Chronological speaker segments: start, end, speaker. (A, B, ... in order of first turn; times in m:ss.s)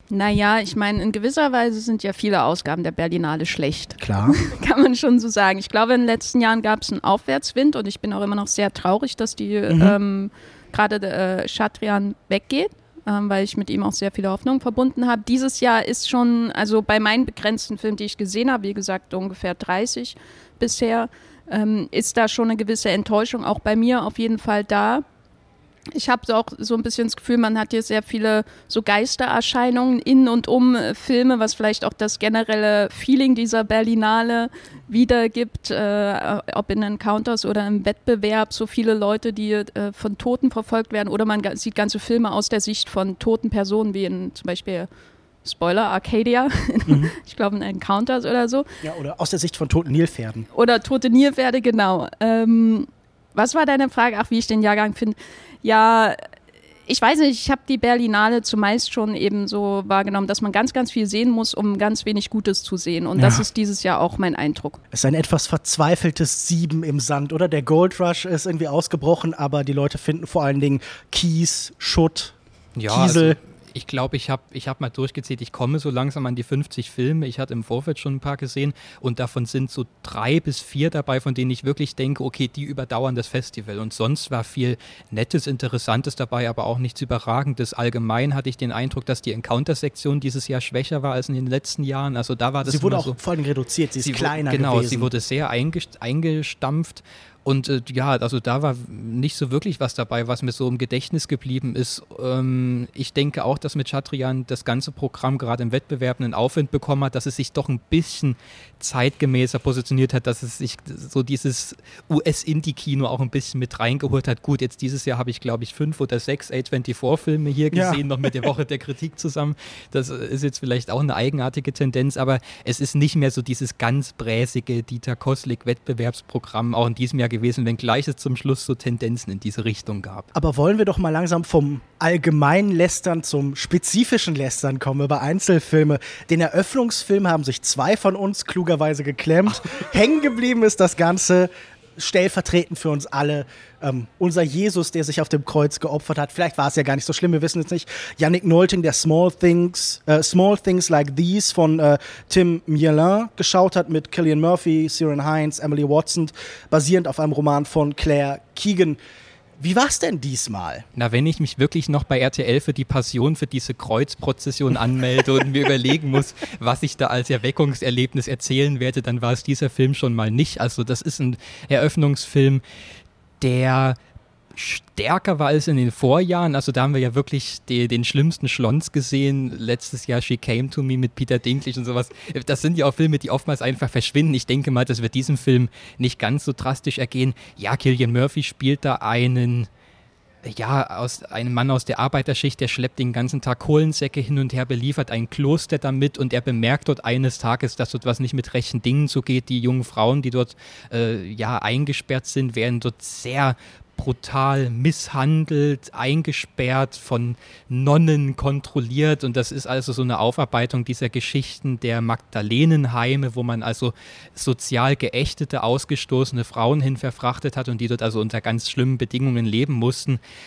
0:00.1-0:25.0 A
0:04.0-0:04.4 B
0:09.7-0:10.0 B
0:25.9-0:44.9 A
0:45.4-0:48.7 A
0:46.9-0:47.1 B
0:48.8-0:50.5 B
0:50.5-0:56.2 A
0:56.9-1:04.8 A
1:03.2-1:03.4 B
1:04.9-1:12.4 B
1:12.8-1:33.2 C
1:12.9-1:13.4 B
1:32.6-1:35.1 B
1:34.0-2:10.3 C
1:57.7-1:58.5 B
2:10.3-2:39.0 B
2:39.6-2:40.8 B
2:41.0-2:52.6 C
2:53.4-2:54.0 C
2:54.5-3:09.7 C
3:10.4-3:40.2 C